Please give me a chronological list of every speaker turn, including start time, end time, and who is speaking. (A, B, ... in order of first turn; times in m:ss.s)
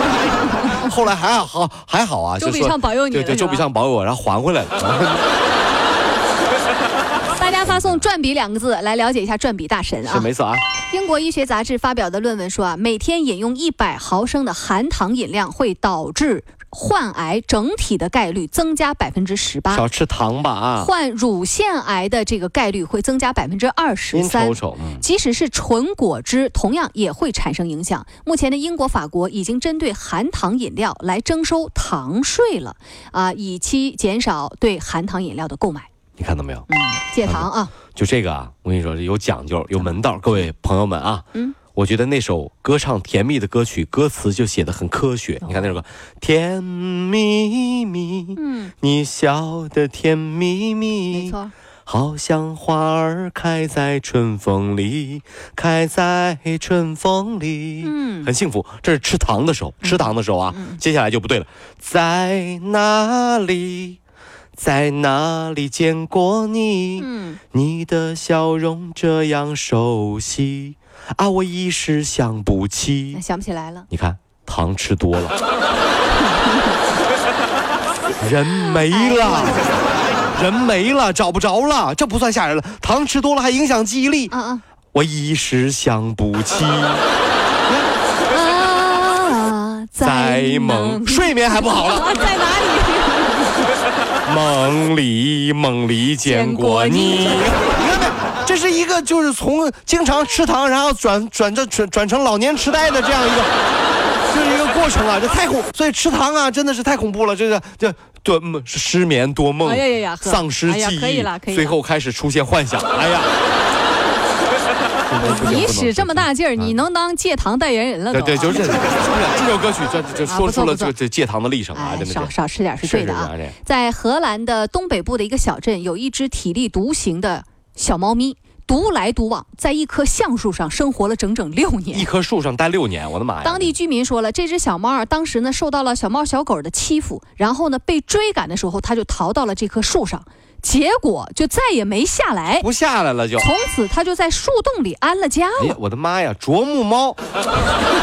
0:00.7-0:05.2 A
0:02.4-0:03.7 B
0:07.3-0:10.3 B
0:07.7-0:08.0 A
0:10.0-0:10.6 A
0:10.9-0:19.9 B
0:19.7-0:20.9 A
0:20.8-0:35.9 B
0:24.1-0:25.0 A
0:36.2-0:36.7 A
0:36.7-0:37.7 B
0:37.2-0:51.4 A
0:45.4-0:45.8 B
0:48.4-0:48.7 B
0:51.1-0:51.5 B
0:51.9-1:04.0 A
0:57.8-0:58.3 B
0:59.8-1:00.8 B
1:04.6-1:13.2 A
1:07.0-1:07.4 B
1:13.1-1:13.9 B
1:13.9-1:15.4 A
1:16.2-1:16.8 B
1:18.2-1:19.6 A
1:18.6-1:19.7 B
1:20.3-1:24.3 A
1:24.3-1:24.6 B
1:24.9-1:27.0 A
1:28.3-1:33.7 B
1:30.0-1:32.3 A
1:34.2-1:43.5 A
1:36.2-1:38.1 B
1:44.3-1:53.3 A
1:49.6-1:51.8 B
1:55.1-1:56.8 A
1:55.2-1:58.6 B
1:58.1-2:03.6 A
2:00.3-2:01.0 B
2:01.7-2:12.1 B
2:11.9-2:13.8 A
2:13.4-2:22.7 B
2:22.6-2:23.5 A
2:23.4-2:25.8 B
2:25.6-2:27.2 A